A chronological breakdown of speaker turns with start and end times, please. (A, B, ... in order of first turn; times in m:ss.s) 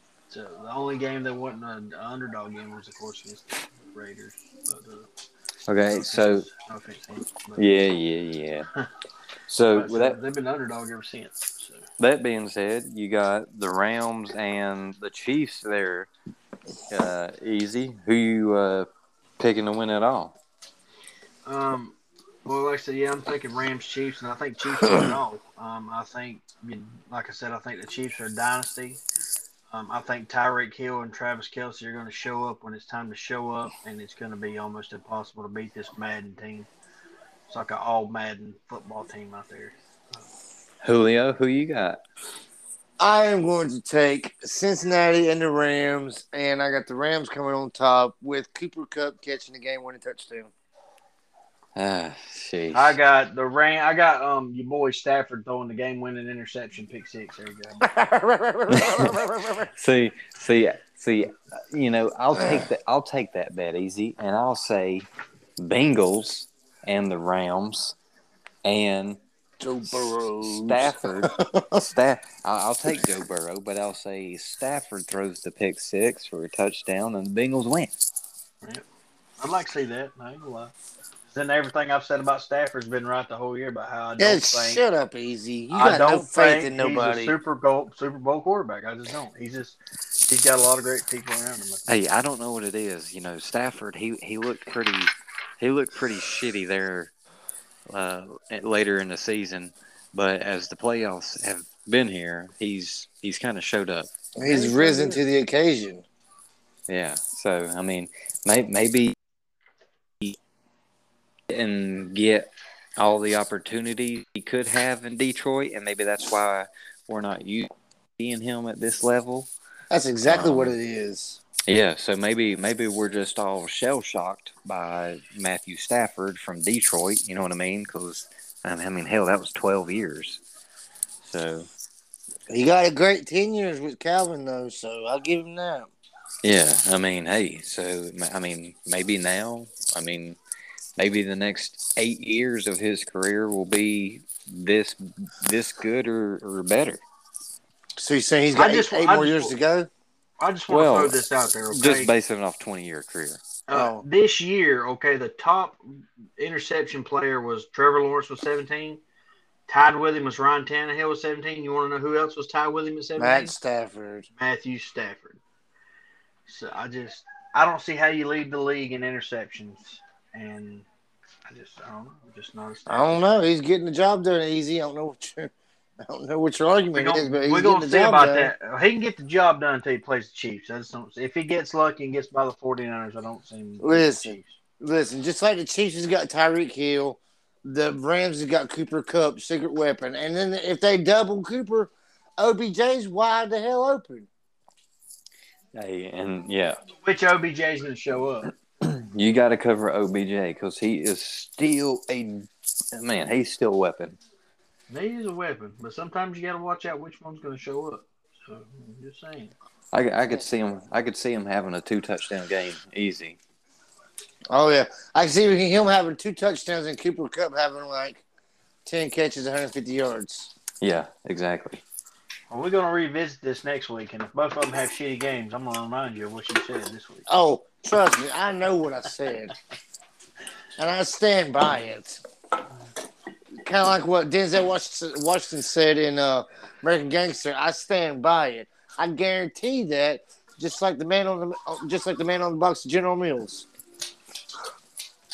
0:00.3-0:05.1 A
0:05.7-0:06.5 B
0:05.9-0:07.8 A
0:07.6-0:08.7 B
0:09.5-0:10.2 B
0:09.7-0:11.9 A
0:12.0-0:16.1 B
0:16.9-0:18.9 B
0:19.4-0:20.4 B
0:21.4-0:29.0 A
0:29.7-0:36.7 A
0:37.5-0:40.3 A
0:40.8-0:42.0 B
0:43.0-0:50.5 C
0:51.8-0:53.0 B
0:52.7-0:57.9 A
0:57.8-0:59.7 C
0:58.7-0:59.2 B
0:59.7-1:08.0 B
1:08.6-1:09.2 B
1:09.6-1:11.8 C
1:09.9-1:18.0 B
1:19.4-1:20.7 A
1:21.3-1:24.8 A
1:24.2-1:27.4 C
1:25.7-1:31.9 A
1:31.9-1:37.1 B
1:37.9-1:44.1 B
1:44.4-1:46.0 C
1:44.4-1:45.2 A
1:46.9-1:49.2 B
1:51.5-1:59.5 B
1:59.9-2:01.4 C
2:00.3-2:00.8 B
2:01.7-2:10.4 B
2:11.2-2:11.7 B
2:12.5-2:15.9 C
2:16.4-2:20.4 B
2:21.0-2:27.0 B
2:28.0-2:29.9 C
2:28.5-2:29.6 A
2:30.4-2:32.1 A
2:30.7-2:33.4 B
2:33.7-2:35.8 A
2:33.7-2:34.0 C
2:36.4-2:39.0 A
2:39.7-2:43.5 A
2:43.2-2:44.3 C
2:44.4-2:45.4 A
2:46.5-2:50.9 A
2:51.5-2:53.4 A
2:52.9-2:55.5 C
2:56.0-2:58.5 C
2:57.0-3:04.6 A
3:03.8-3:14.3 C
3:15.7-3:16.8 B
3:17.0-3:18.5 A
3:18.8-3:24.2 B
3:24.9-3:29.5 A
3:29.9-3:33.4 B
3:34.5-3:38.2 C
3:38.9-3:40.5 C
3:40.8-3:41.8 B
3:42.5-3:47.3 A
3:47.3-3:49.5 C
3:50.8-3:52.2 C
3:53.6-4:03.7 C